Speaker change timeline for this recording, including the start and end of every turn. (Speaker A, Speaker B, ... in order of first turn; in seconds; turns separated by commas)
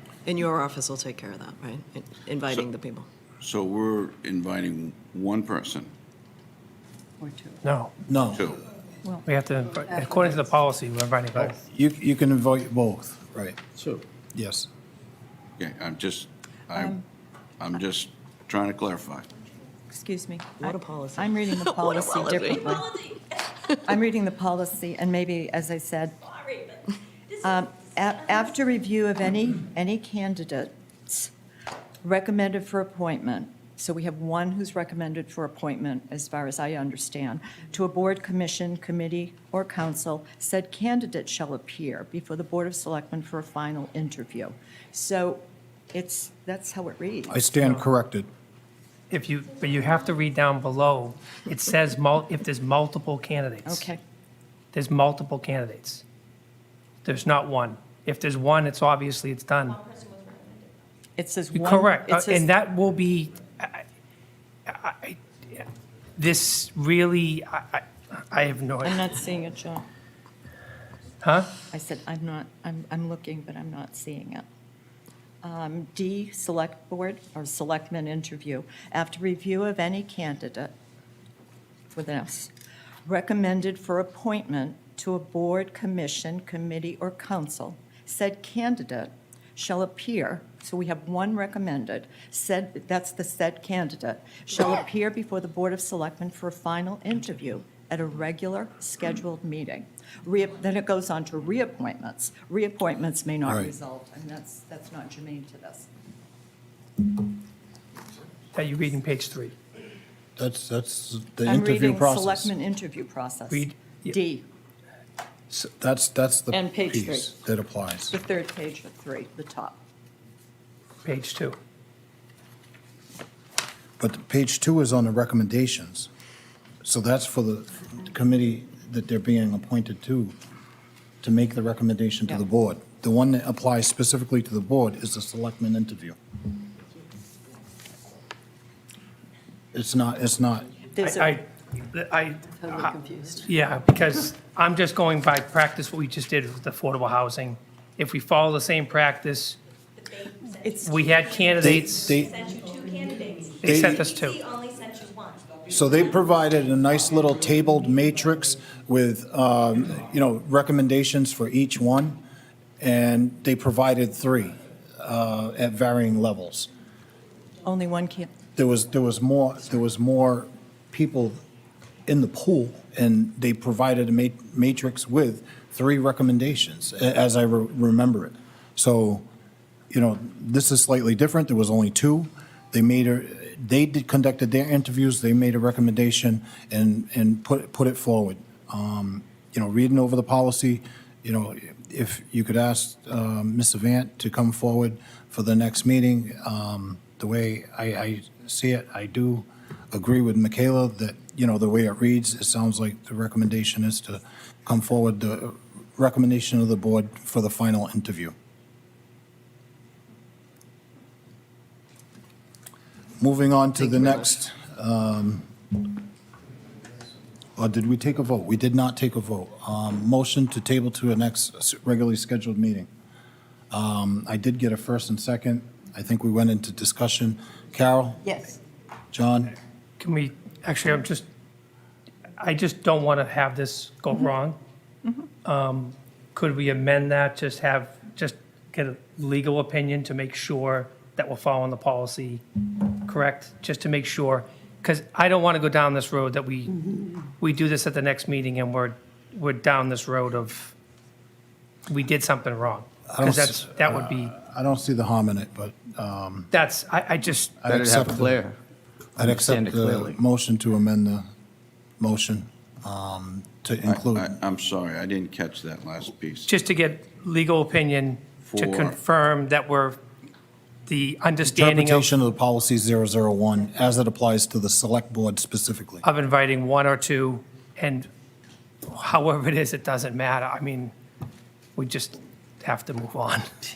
Speaker A: 0.3-0.7, Speaker B: 0.4-3.0, Speaker A: 2.2-2.8, Speaker C: 3.4-5.9, Speaker D: 7.2-7.6, Speaker E: 7.6-7.9, Speaker F: 8.1-8.5, Speaker C: 8.3-8.6, Speaker E: 9.3-11.6, Speaker F: 11.7-13.6, Speaker G: 13.8-14.0, Speaker F: 14.3-14.7, Speaker C: 15.6-17.0, Speaker D: 16.7-17.0, Speaker C: 17.6-19.3, Speaker D: 19.9-22.9, Speaker B: 20.6-21.1, Speaker B: 21.8-22.5, Speaker A: 22.6-22.9, Speaker D: 23.7-26.2, Speaker D: 27.4-31.3, Speaker D: 32.0-47.4, Speaker F: 47.3-48.3, Speaker E: 47.6-47.9, Speaker E: 49.1-53.9, Speaker D: 53.6-54.0, Speaker E: 54.7-56.0, Speaker E: 57.0-59.8, Speaker D: 61.2-62.5, Speaker E: 61.5-63.8, Speaker E: 64.7-69.0, Speaker D: 68.8-69.8, Speaker E: 71.2-71.5, Speaker D: 71.7-74.5, Speaker D: 75.4-80.7, Speaker D: 81.9-82.5, Speaker D: 83.0-105.9, Speaker F: 103.4-103.7, Speaker E: 108.5-109.5, Speaker F: 110.4-112.5, Speaker D: 111.4-114.5, Speaker E: 113.5-114.1, Speaker F: 115.5-118.1, Speaker D: 116.5-117.3, Speaker D: 118.1-119.8, Speaker E: 121.0-121.6, Speaker F: 124.0-126.1, Speaker F: 126.8-130.3, Speaker F: 131.2-136.2, Speaker F: 139.7-140.8, Speaker D: 140.9-141.4, Speaker E: 141.0-142.4, Speaker D: 142.5-143.5, Speaker E: 143.5-149.6, Speaker D: 150.5-151.1, Speaker E: 150.8-152.1, Speaker F: 151.6-152.3, Speaker A: 152.2-153.6, Speaker E: 153.6-154.4, Speaker F: 153.6-154.1, Speaker A: 154.3-155.4, Speaker F: 155.7-162.2, Speaker F: 162.8-166.7, Speaker D: 167.6-168.3, Speaker F: 168.6-171.4, Speaker F: 172.1-179.2, Speaker F: 179.9-208.3, Speaker F: 213.2-215.5, Speaker F: 217.6-222.9, Speaker F: 223.7-228.4, Speaker D: 228.3-228.5, Speaker F: 229.1-229.5, Speaker E: 230.0-231.2, Speaker E: 232.4-234.6, Speaker E: 235.4-242.4, Speaker E: 242.9-246.8, Speaker E: 247.4-250.7, Speaker E: 251.9-254.3, Speaker F: 253.1-256.5, Speaker E: 256.5-257.6, Speaker F: 257.6-258.4, Speaker G: 257.6-258.6, Speaker F: 259.1-261.3, Speaker G: 259.2-260.2, Speaker F: 262.0-264.3, Speaker C: 263.9-266.5, Speaker E: 266.5-270.0, Speaker C: 268.4-269.0, Speaker E: 270.9-272.1, Speaker F: 271.4-276.0, Speaker E: 276.0-278.1, Speaker E: 278.9-280.9, Speaker E: 281.8-283.5